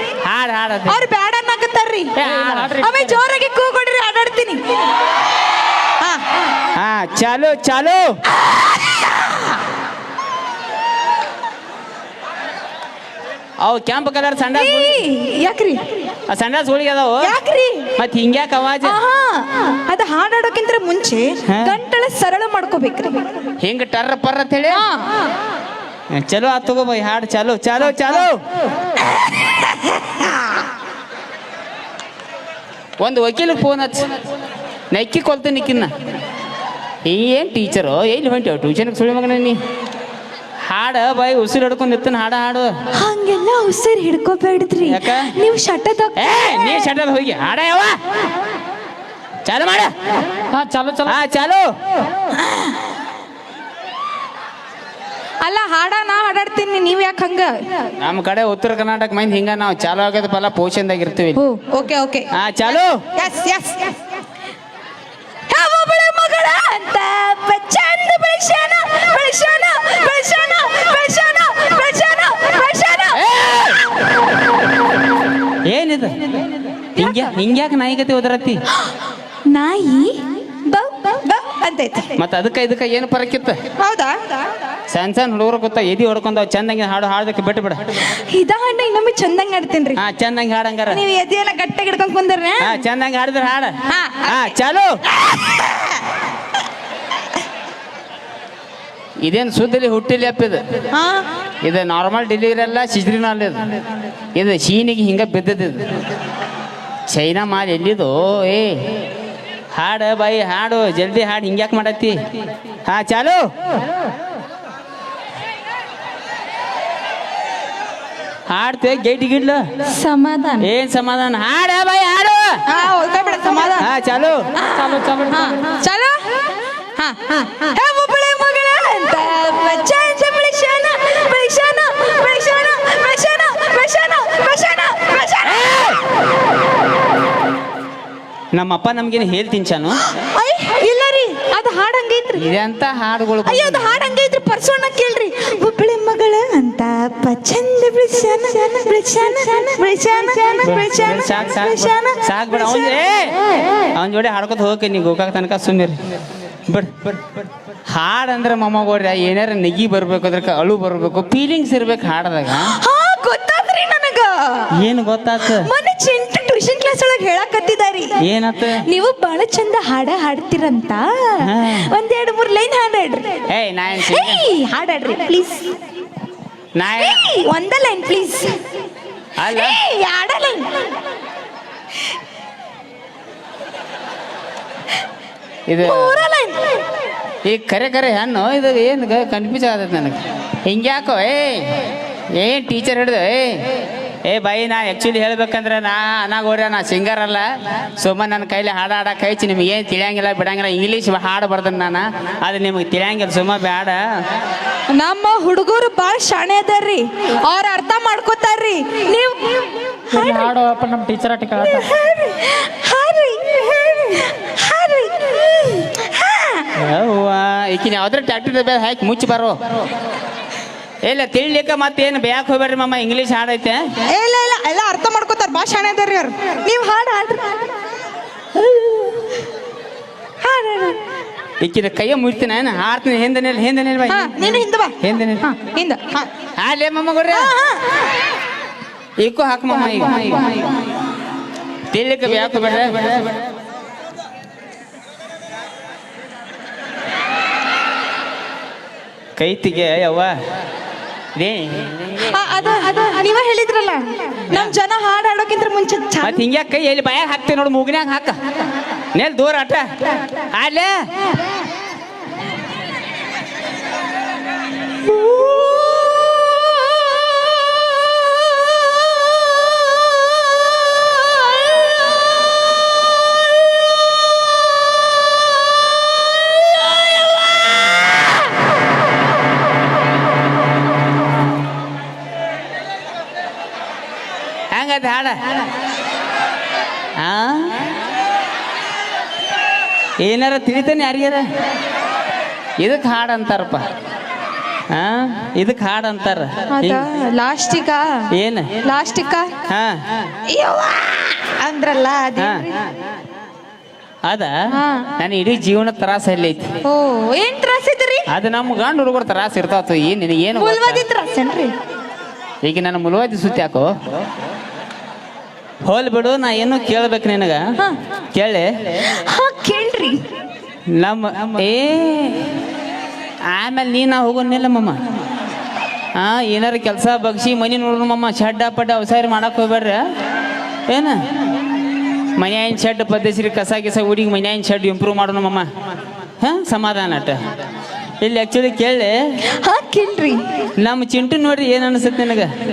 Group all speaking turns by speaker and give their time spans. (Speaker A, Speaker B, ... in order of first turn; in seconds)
Speaker A: 0.2-1.0, 2.1-3.1, 6.7-8.1, 13.6-15.0, 16.3-17.3, 18.0-19.0, 21.5-21.8, 23.6-24.8, 26.1-28.4, 33.0-34.1, 34.9-35.9, 37.0-39.6, 40.7-42.7, 44.8-45.3, 46.1-48.0, 49.4-49.9, 51.0-51.7, 58.0-61.4, 62.3-63.0, 73.1-73.8, 75.7-76.2, 77.0-78.6, 82.2-83.6, 84.9-88.1, 90.0-91.0, 92.6-94.9, 99.2-100.6, 101.6-103.6, 104.3-105.8, 107.1-108.8, 109.7-112.2, 112.8-113.5, 118.5-119.6, 120.6-122.6, 123.8-124.5, 138.5-140.0, 142.3-144.0, 150.6-153.3, 153.9-155.9, 156.7-157.2, 157.9-162.7, 164.7-165.7, 168.2-168.8, 171.4-171.9, 173.5-174.4, 176.8-177.2, 179.4-179.8, 185.7-186.2, 187.4-191.7, 192.4-193.6, 194.2-197.4, 198.0-204.0, 216.7-219.6, 221.0-223.8, 231.6-235.4, 236.6-237.5, 239.2-240.6, 241.9-243.2, 249.4-250.3, 251.3-252.1, 254.5-254.7, 256.2-258.4, 259.1-259.9, 260.5-261.0, 284.7-285.4, 287.2-287.7, 290.2-291.4, 292.8-293.9, 294.9-297.1, 298.3-298.8, 299.7-300.0, 302.4-302.6, 304.2-304.5, 305.2-306.7, 308.3-311.0, 312.6-313.9, 315.8-317.6, 318.3-319.1, 320.9-322.5, 323.5-325.0, 326.1-330.0, 330.9-331.2, 332.4-335.7, 336.4-337.4, 338.2-339.1, 340.8-342.5
Speaker B: 0.9-2.2, 2.8-4.6, 14.5-15.8, 17.2-17.9, 18.8-23.2, 24.7-25.1, 29.6-29.9, 42.9-46.6, 52.4-52.8, 55.4-57.6, 61.3-62.3, 63.1-64.0, 65.5-73.6, 77.0-77.3, 79.5-82.2, 83.8-84.4, 88.1-90.0, 90.9-92.8, 93.9-94.5, 100.9-101.2, 119.9-120.7, 122.7-123.9, 124.5-126.5, 127.0-136.0, 140.0-142.4, 143.4-153.0, 162.5-164.7, 165.4-168.2, 168.8-173.4, 174.0-175.7, 176.9-178.6, 179.5-180.9, 185.8-186.8, 204.9-210.5, 211.6-216.7, 224.1-227.7, 228.6-229.3, 230.4-231.0, 234.1-236.3, 237.3-238.0, 252.2-256.4, 296.7-298.3, 298.8-299.5, 300.4-302.7, 304.7-305.1, 306.8-308.3, 310.5-311.7, 319.1-320.2, 339.5-340.4
Speaker C: 2.2-3.0, 50.5-51.2, 124.7-125.8, 210.1-211.9